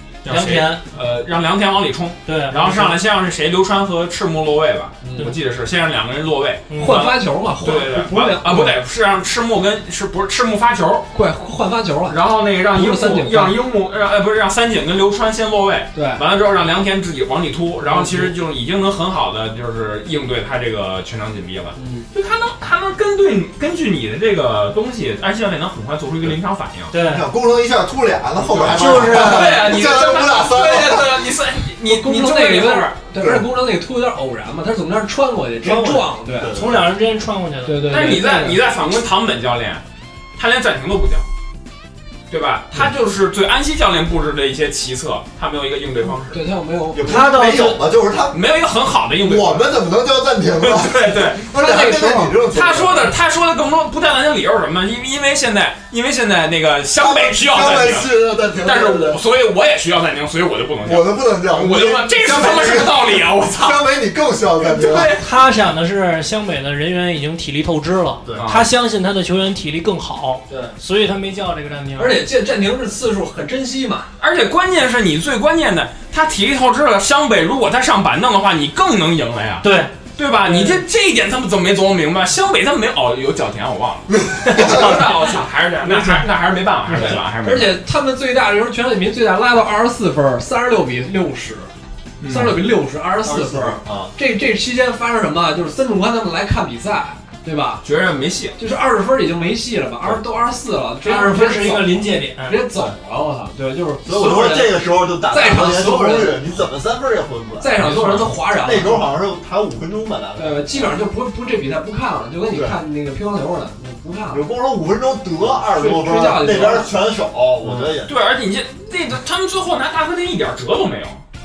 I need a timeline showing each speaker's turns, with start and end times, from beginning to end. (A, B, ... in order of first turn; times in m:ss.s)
0:00.2-0:11.1 A
0:00.3-0:00.8 B
0:02.2-0:03.0 B
0:05.0-0:05.4 C
0:06.7-0:07.0 B
0:06.8-0:08.8 C
0:11.1-0:13.6 C
0:12.1-0:26.9 A
0:15.9-0:16.2 C
0:17.8-0:18.3 C
0:21.8-0:22.1 C
0:26.9-0:27.2 B
0:27.0-0:31.2 D
0:28.5-0:32.9 A
0:28.7-0:29.6 B
0:31.8-0:36.5 C
0:33.2-0:33.5 D
0:35.6-0:36.9 D
0:36.5-0:38.1 B
0:37.6-0:38.6 C
0:37.9-0:39.8 A
0:40.4-0:41.2 A
0:42.3-0:46.4 A
0:46.1-0:47.3 C
0:46.9-0:48.4 D
0:47.0-0:47.8 B
0:48.3-0:49.7 A
0:49.2-0:53.1 D
0:50.6-0:51.5 A
0:51.6-0:52.3 C
0:52.4-1:03.8 A
0:57.0-0:59.2 D
1:00.8-1:05.1 D
1:04.7-1:05.2 C
1:05.1-1:12.2 B
1:08.3-1:08.7 A
1:10.5-1:10.8 C
1:12.0-1:14.1 C
1:14.2-1:27.8 A
1:19.6-1:19.9 B
1:20.4-1:20.8 C
1:24.4-1:25.2 B
1:24.5-1:24.8 D
1:25.8-1:26.3 B
1:26.9-1:31.7 C
1:32.2-1:32.6 A
1:32.2-1:37.8 C
1:33.2-1:34.1 D
1:37.8-1:38.6 A
1:38.6-1:44.8 C
1:41.0-1:42.6 B
1:44.0-1:47.8 D
1:45.3-1:46.5 C
1:47.6-1:49.1 C
1:47.8-1:48.3 A
1:48.6-1:50.9 D
1:50.4-1:54.4 C
1:52.5-1:52.8 D
1:54.3-1:58.1 D
1:55.5-1:56.9 C
1:57.6-1:57.9 C
1:58.0-2:01.2 A